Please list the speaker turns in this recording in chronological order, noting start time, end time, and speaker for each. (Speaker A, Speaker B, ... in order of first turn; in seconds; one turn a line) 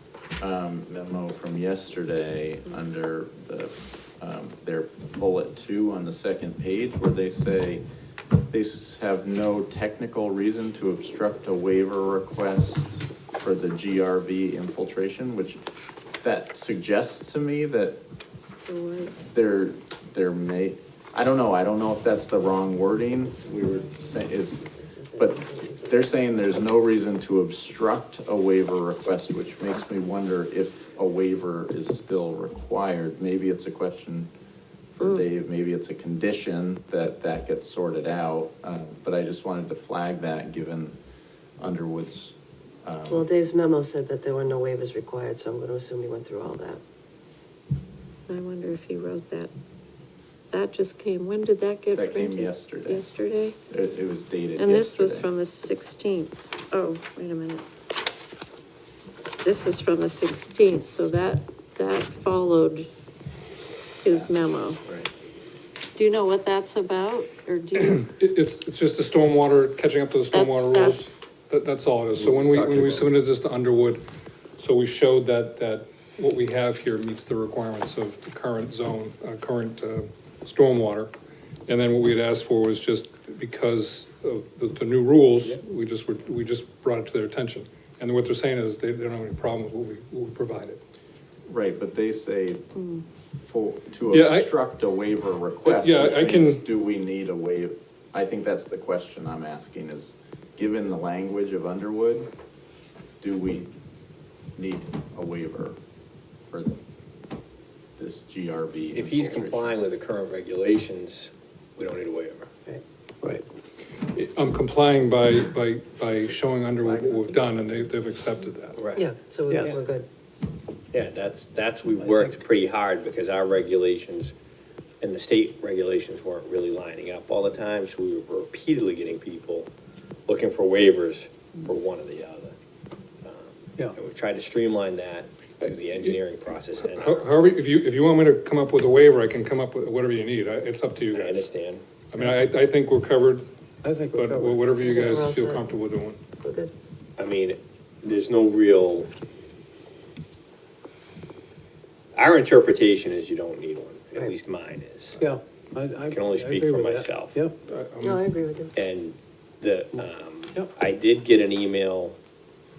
Speaker A: 0.4-7.8
Speaker A: 8.5-15.6
Speaker A: 16.2-18.0
Speaker B: 18.7-19.3
Speaker A: 19.3-34.3
Speaker C: 24.8-26.0
Speaker A: 35.0-41.0
Speaker A: 41.6-43.3
Speaker C: 43.1-46.8
Speaker B: 48.3-49.5
Speaker B: 50.5-53.6
Speaker A: 52.0-53.1
Speaker A: 53.7-55.3
Speaker B: 54.6-57.6
Speaker B: 59.4-62.9
Speaker B: 64.0-64.8
Speaker A: 64.8-65.1
Speaker B: 66.0-68.1
Speaker D: 67.9-74.0
Speaker B: 70.3-71.2
Speaker D: 74.6-81.1
Speaker D: 81.7-90.8
Speaker A: 91.5-92.7
Speaker B: 92.8-93.0
Speaker A: 93.4-102.3
Speaker D: 94.1-94.5
Speaker D: 95.7-96.7
Speaker A: 103.2-103.7
Speaker A: 104.6-105.8
Speaker A: 106.5-106.8
Speaker A: 108.0-109.8
Speaker E: 108.9-112.8
Speaker D: 114.1-118.8
Speaker A: 116.9-117.5
Speaker E: 118.8-119.1
Speaker C: 119.0-120.1
Speaker F: 119.5-119.8
Speaker E: 120.9-124.3
Speaker F: 122.0-122.3
Speaker E: 125.0-129.7
Speaker E: 130.3-132.5
Speaker E: 133.2-137.3
Speaker D: 136.9-141.4
Speaker E: 141.1-141.8
Speaker D: 142.1-143.4
Speaker F: 143.8-144.8
Speaker D: 144.1-146.2
Speaker C: 144.8-145.7
Speaker C: 146.4-146.7
Speaker E: 147.2-149.1
Speaker E: 152.2-155.2
Speaker F: 155.2-157.5
Speaker E: 156.1-157.4
Speaker D: 157.7-158.3
Speaker C: 158.0-158.7
Speaker E: 158.8-162.2